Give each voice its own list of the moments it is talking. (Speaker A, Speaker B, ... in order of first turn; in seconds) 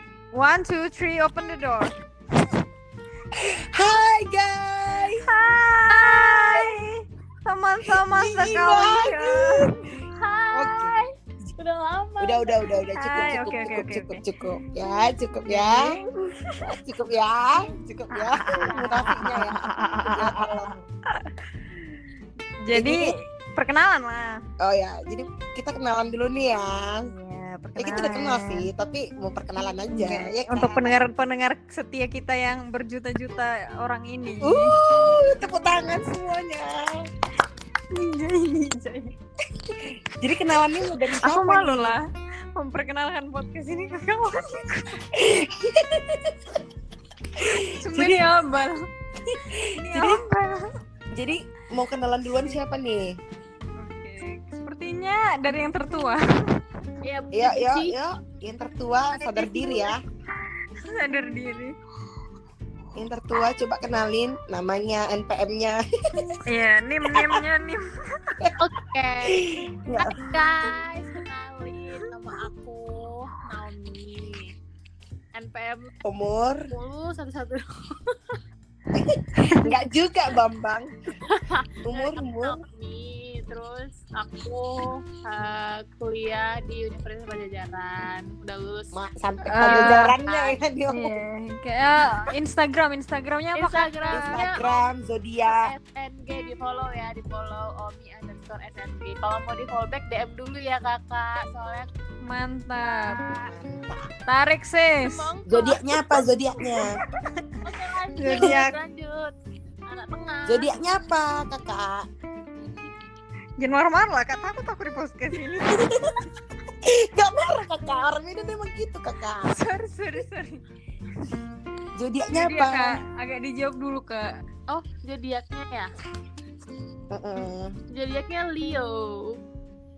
Speaker A: 0.3-1.9, 5.2-9.8, 12.9-14.2, 15.5-16.7, 18.1-21.3, 22.6-24.4, 27.1-28.7, 29.9-34.8, 37.9-39.1, 41.2-42.0, 42.5-45.0, 47.7-48.9, 49.8-50.7, 53.8-56.6, 60.8-61.7, 66.5-68.3, 79.4-79.7, 89.5-90.1, 90.9-94.3, 102.2-103.2, 104.3-105.3, 106.6-107.6, 108.2-108.8, 113.6-116.1, 119.4-120.6, 122.3-124.3
Speaker B: 3.3-5.3, 5.9-6.7, 7.9-9.7, 10.5-11.5, 12.2-16.0, 16.6-20.8, 22.7-23.1, 24.6-27.1, 27.8-31.0, 34.4-37.0, 39.6-42.0, 45.1-46.6, 47.4-48.2, 49.2-50.2, 51.1-53.2, 57.3-60.0, 63.0-66.4, 67.1-67.4, 68.4-68.6, 69.2-70.3, 76.0-76.7, 78.9-81.0, 81.8-82.6, 88.9-91.2, 94.1-95.7, 103.4-104.1, 105.5-107.0, 110.5-112.1, 115.7-116.2, 116.8-119.6, 121.9-123.0, 127.1-127.8
Speaker C: 10.1-12.6, 57.0-58.0, 59.1-59.9, 68.6-69.4, 69.9-74.5, 75.3-75.9, 76.7-78.4, 81.2-88.9, 89.6-90.6, 93.5-94.8, 95.5-101.9, 102.8-103.5, 105.0-105.8, 107.6-109.3, 109.9-110.8, 124.7-125.9, 127.9-129.4